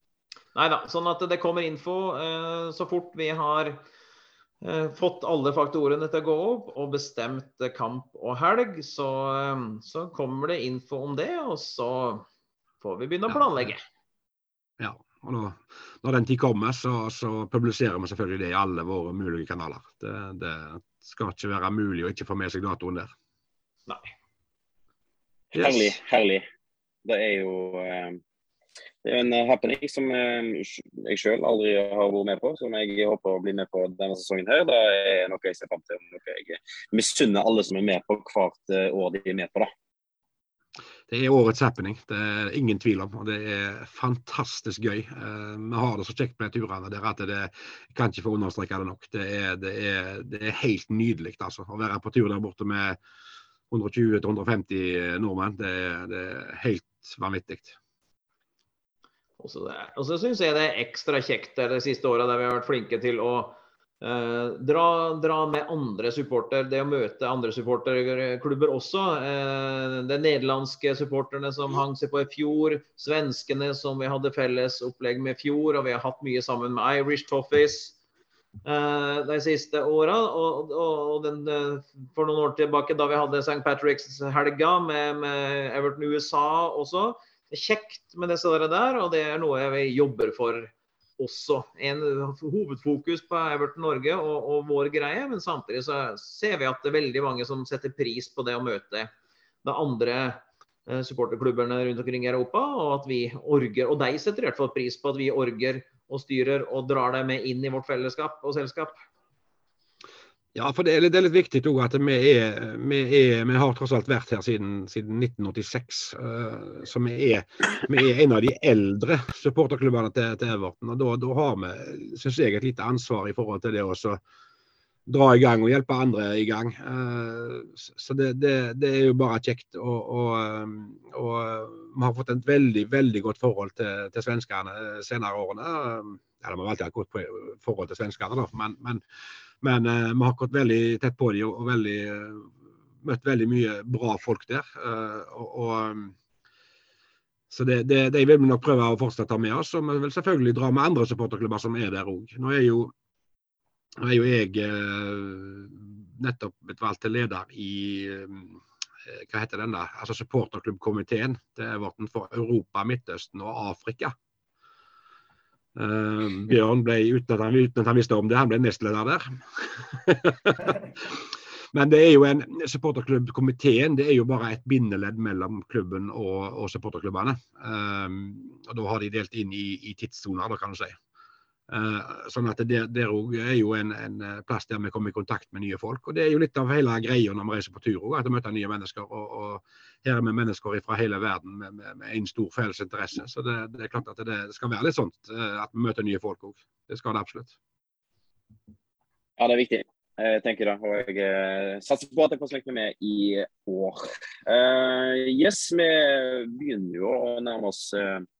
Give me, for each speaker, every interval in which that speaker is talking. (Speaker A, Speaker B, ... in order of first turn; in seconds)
Speaker A: 0.5-3.8, 4.6-12.2, 12.8-13.8, 59.4-78.0, 78.6-99.1, 99.6-109.0
Speaker B: 14.8-23.1, 25.5-25.9, 41.1-53.0, 53.7-57.8, 110.5-124.2, 125.1-139.0, 139.6-142.5, 143.0-146.1, 147.5-152.9, 154.0-164.1, 165.8-181.0, 181.7-197.6
Speaker C: 25.5-26.4, 27.0-28.2, 29.0-39.7, 199.4-208.2